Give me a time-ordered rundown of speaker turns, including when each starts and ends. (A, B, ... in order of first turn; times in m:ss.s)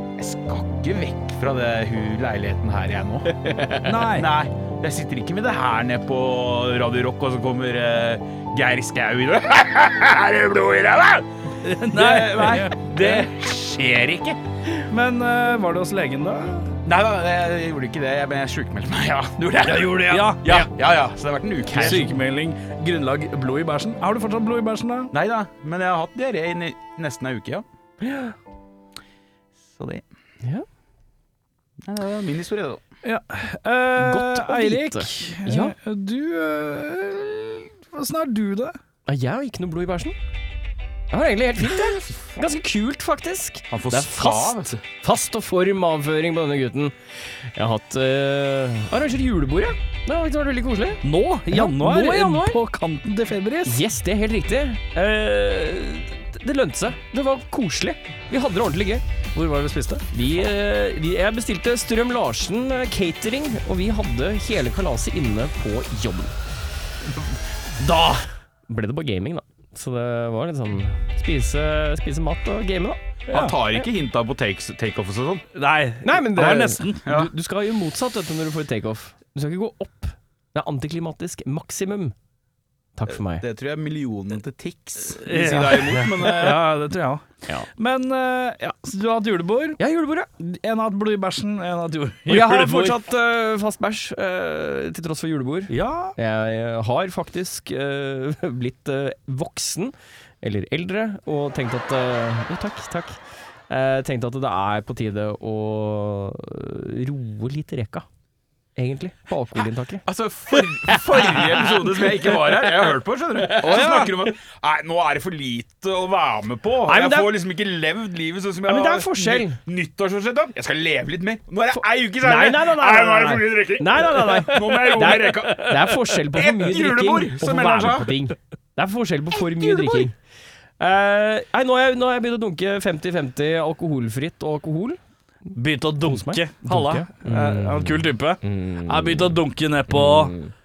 0:00.2-0:11.3 A
0:03.8-0:04.3 B
0:11.6-0:13.3 B
0:11.8-0:14.8 A
0:14.9-0:16.7 B
0:16.8-0:22.1 A
0:19.6-0:20.6 B
0:21.7-0:22.1 C
0:21.8-0:25.1 B
0:25.1-0:27.6 A
0:28.1-0:28.3 C
0:29.7-0:30.0 A
0:31.8-0:32.8 A
0:33.0-0:38.8 B
0:34.0-0:35.7 C
0:39.0-0:40.2 C
0:41.1-0:52.6 C
0:43.7-0:44.8 A
0:51.0-0:53.8 B
0:53.7-0:59.0 C
0:59.3-1:00.1 B
1:00.1-1:06.4 C
1:07.8-1:13.0 C
1:13.3-1:13.6 B
1:13.3-1:15.5 A
1:15.5-1:17.2 B
1:16.0-1:22.2 C
1:17.0-1:17.3 A
1:23.0-1:23.4 C
1:23.1-1:26.7 A
1:25.1-1:29.8 B
1:29.8-1:30.3 C
1:30.4-1:33.0 B
1:32.3-1:43.2 C
1:35.7-1:36.2 B
1:43.7-1:48.0 C
1:48.8-1:54.0 C
1:50.0-2:08.1 A
1:53.6-1:54.1 B
1:56.9-1:57.3 C
1:58.7-1:59.6 C
2:02.2-2:10.2 C
2:09.4-2:10.1 A
2:10.8-2:15.0 C
2:15.6-2:20.4 B
2:16.0-2:20.5 C